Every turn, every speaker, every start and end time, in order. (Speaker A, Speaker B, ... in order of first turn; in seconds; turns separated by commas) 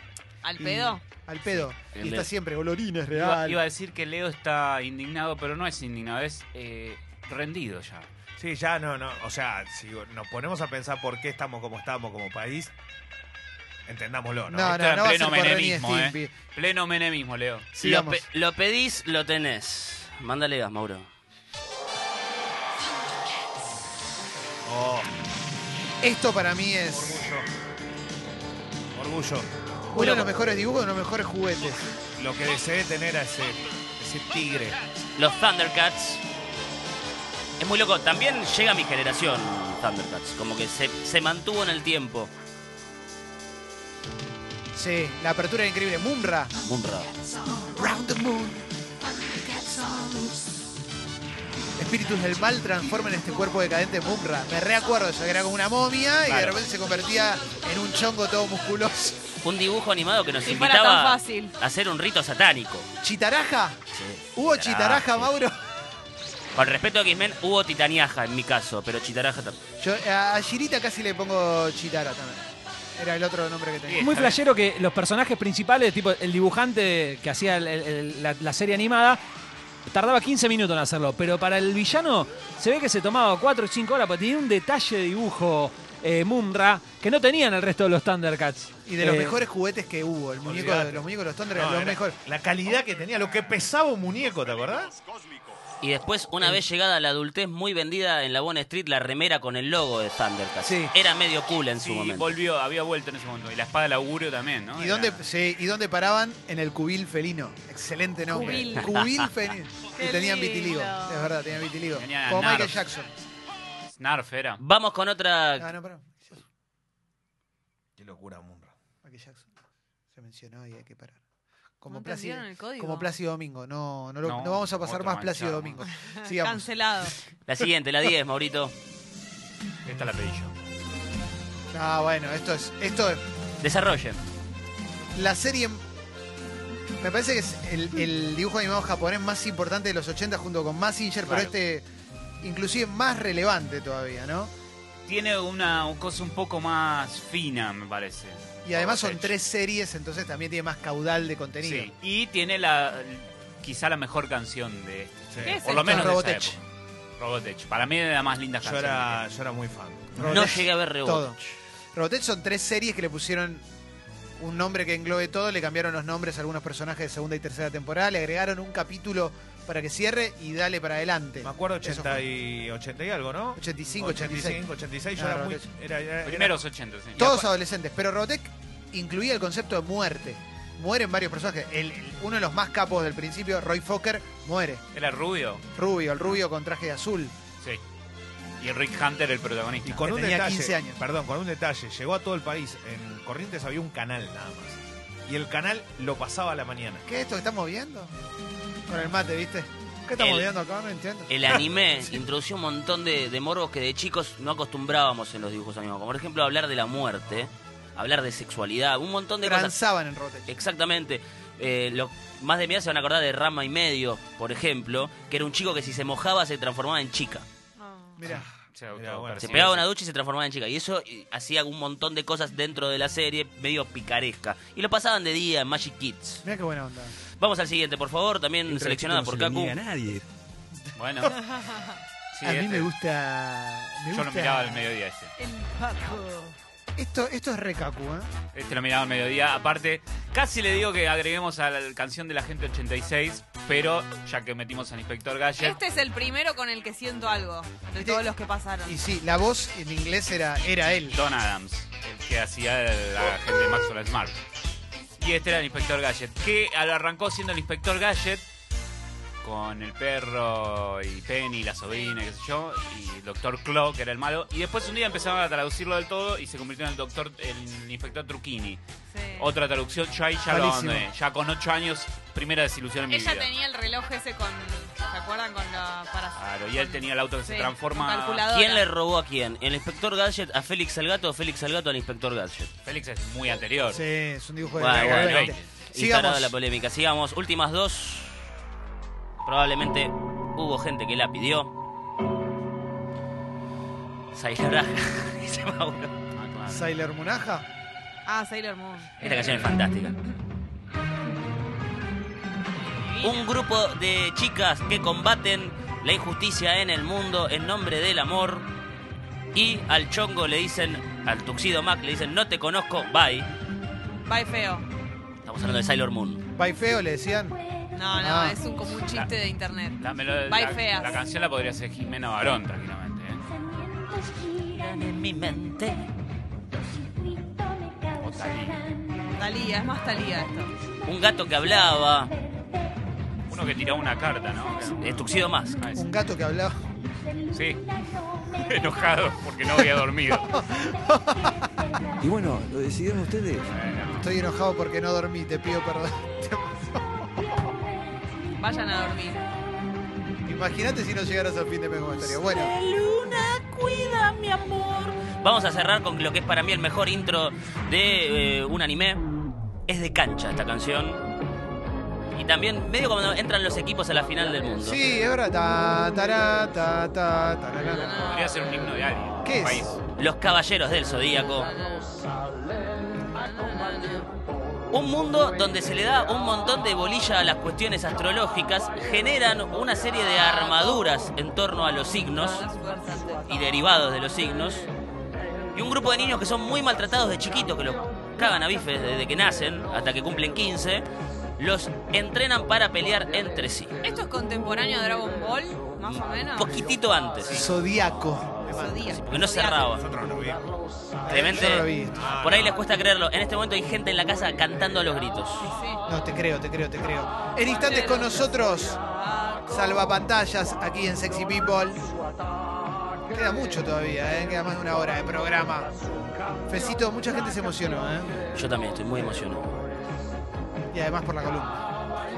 Speaker A: 0.4-1.0, Speaker B: 0.6-3.6, Speaker C: 1.9-2.3, Speaker D: 3.1-8.1, Speaker E: 8.4-12.7, Speaker E: 13.9-14.7, Speaker B: 14.5-16.3, Speaker D: 14.6-17.7, Speaker B: 17.7-18.2, Speaker C: 17.8-21.1, Speaker E: 24.6-25.1, Speaker B: 26.0-27.2, Speaker E: 26.9-27.4, Speaker E: 28.9-29.5, Speaker B: 29.9-31.9, Speaker C: 29.9-30.3, Speaker E: 32.2-34.8, Speaker C: 35.1-36.2, Speaker C: 37.6-42.3, Speaker B: 44.7-46.5, Speaker C: 46.6-47.1, Speaker B: 47.6-48.6, Speaker B: 49.3-50.3, Speaker B: 51.8-59.2, Speaker C: 56.2-56.6, Speaker C: 59.4-62.9, Speaker A: 60.4-61.5, Speaker B: 63.0-63.8, Speaker C: 63.9-65.3, Speaker B: 64.3-65.5, Speaker C: 66.5-69.6, Speaker B: 69.8-74.2, Speaker D: 73.9-74.4, Speaker F: 74.0-79.2, Speaker F: 79.9-89.4, Speaker B: 88.8-92.2, Speaker E: 90.4-91.0, Speaker E: 91.5-95.0, Speaker C: 95.8-102.3, Speaker B: 100.6-100.9, Speaker D: 101.8-105.2, Speaker B: 104.8-113.1, Speaker A: 108.2-109.0, Speaker C: 108.8-109.3, Speaker A: 109.9-111.3, Speaker D: 111.9-112.8, Speaker D: 114.0-114.6, Speaker C: 114.6-115.7, Speaker B: 115.6-116.4, Speaker E: 118.0-118.7, Speaker B: 119.0-119.5, Speaker B: 120.1-121.2, Speaker B: 121.8-127.6, Speaker A: 121.9-123.1, Speaker D: 124.2-125.8, Speaker A: 126.1-127.1, Speaker C: 127.5-128.7, Speaker D: 129.8-130.5, Speaker B: 131.7-133.2, Speaker C: 133.6-134.2, Speaker B: 135.1-135.8, Speaker B: 137.0-141.8, Speaker B: 142.4-144.5, Speaker D: 145.1-149.3, Speaker B: 148.6-151.9, Speaker D: 151.6-156.6, Speaker E: 155.3-155.6, Speaker A: 155.4-156.1, Speaker B: 155.8-156.6, Speaker D: 157.2-159.2, Speaker E: 158.6-160.5, Speaker B: 160.1-161.4, Speaker C: 160.2-161.6, Speaker B: 161.9-163.6, Speaker B: 164.4-172.2, Speaker E: 171.4-176.6, Speaker B: 173.6-174.6, Speaker B: 175.1-175.7, Speaker D: 176.2-177.4, Speaker B: 177.2-184.8, Speaker D: 184.9-185.6, Speaker B: 185.7-187.3, Speaker D: 188.6-190.1, Speaker E: 189.8-197.0, Speaker B: 190.0-191.0, Speaker B: 197.1-198.1, Speaker B: 198.9-201.7, Speaker C: 200.2-200.5, Speaker C: 201.3-209.7, Speaker B: 209.4-210.5, Speaker C: 210.5-217.4, Speaker A: 217.8-218.2, Speaker B: 218.2-218.5, Speaker E: 218.2-219.8, Speaker D: 218.7-219.8, Speaker C: 219.4-226.4, Speaker B: 226.4-227.2, Speaker C: 227.4-229.8, Speaker G: 228.7-230.2, Speaker B: 230.8-231.4, Speaker D: 230.9-231.4, Speaker A: 231.3-232.0, Speaker D: 232.3-232.9, Speaker B: 232.4-234.8, Speaker D: 234.1-235.3, Speaker A: 235.4-236.6, Speaker B: 236.9-238.3, Speaker D: 238.5-245.8, Speaker A: 245.6-249.0, Speaker B: 247.9-248.2, Speaker B: 248.8-251.2, Speaker D: 251.1-254.4, Speaker D: 255.2-258.4, Speaker D: 259.4-268.8, Speaker A: 261.9-262.2, Speaker A: 269.1-269.5, Speaker D: 269.4-273.5, Speaker B: 270.5-271.1, Speaker A: 273.1-278.9, Speaker D: 276.4-278.5, Speaker C: 278.5-282.7, Speaker D: 282.8-284.0, Speaker B: 283.9-286.5, Speaker C: 284.8-288.4, Speaker D: 284.8-285.7, Speaker C: 289.4-291.7, Speaker C: 294.3-296.1, Speaker D: 296.3-296.8, Speaker B: 296.7-297.7, Speaker A: 298.3-299.1, Speaker C: 299.2-300.1, Speaker A: 302.8-303.5, Speaker C: 303.2-308.7, Speaker C: 309.5-313.5, Speaker A: 314.2-314.9, Speaker C: 315.4-316.4, Speaker B: 316.6-317.6, Speaker A: 317.9-321.1, Speaker B: 318.2-318.6, Speaker D: 320.0-323.4, Speaker C: 324.6-326.0, Speaker D: 328.2-328.8, Speaker A: 329.4-330.7, Speaker C: 331.0-332.3, Speaker D: 333.5-336.1, Speaker C: 335.0-335.8, Speaker B: 335.9-336.8, Speaker D: 337.5-337.9, Speaker D: 338.4-340.6, Speaker B: 340.5-341.6, Speaker G: 342.2-343.8, Speaker D: 343.7-344.3, Speaker B: 344.2-347.6, Speaker A: 348.6-349.5, Speaker B: 350.4-352.7, Speaker C: 352.2-359.2, Speaker C: 359.9-361.2, Speaker C: 362.3-365.0, Speaker B: 364.8-368.1, Speaker A: 367.9-368.6, Speaker D: 368.2-370.0, Speaker B: 369.4-369.9, Speaker C: 370.2-371.7, Speaker A: 371.5-372.2, Speaker A: 373.1-374.3, Speaker C: 374.9-382.6, Speaker A: 382.4-383.5, Speaker C: 383.5-384.9, Speaker C: 385.7-391.1, Speaker C: 391.6-393.9, Speaker A: 394.0-396.9, Speaker C: 396.1-397.6, Speaker B: 397.5-399.0, Speaker A: 398.7-399.9, Speaker C: 399.1-400.0, Speaker E: 399.9-400.6, Speaker B: 401.2-402.2, Speaker C: 401.3-405.7, Speaker E: 402.1-402.8, Speaker A: 405.6-406.0, Speaker B: 406.1-409.0, Speaker A: 407.6-409.8, Speaker B: 409.7-412.0, Speaker B: 413.3-415.9, Speaker B: 416.7-418.3, Speaker C: 418.5-419.7, Speaker B: 420.9-421.8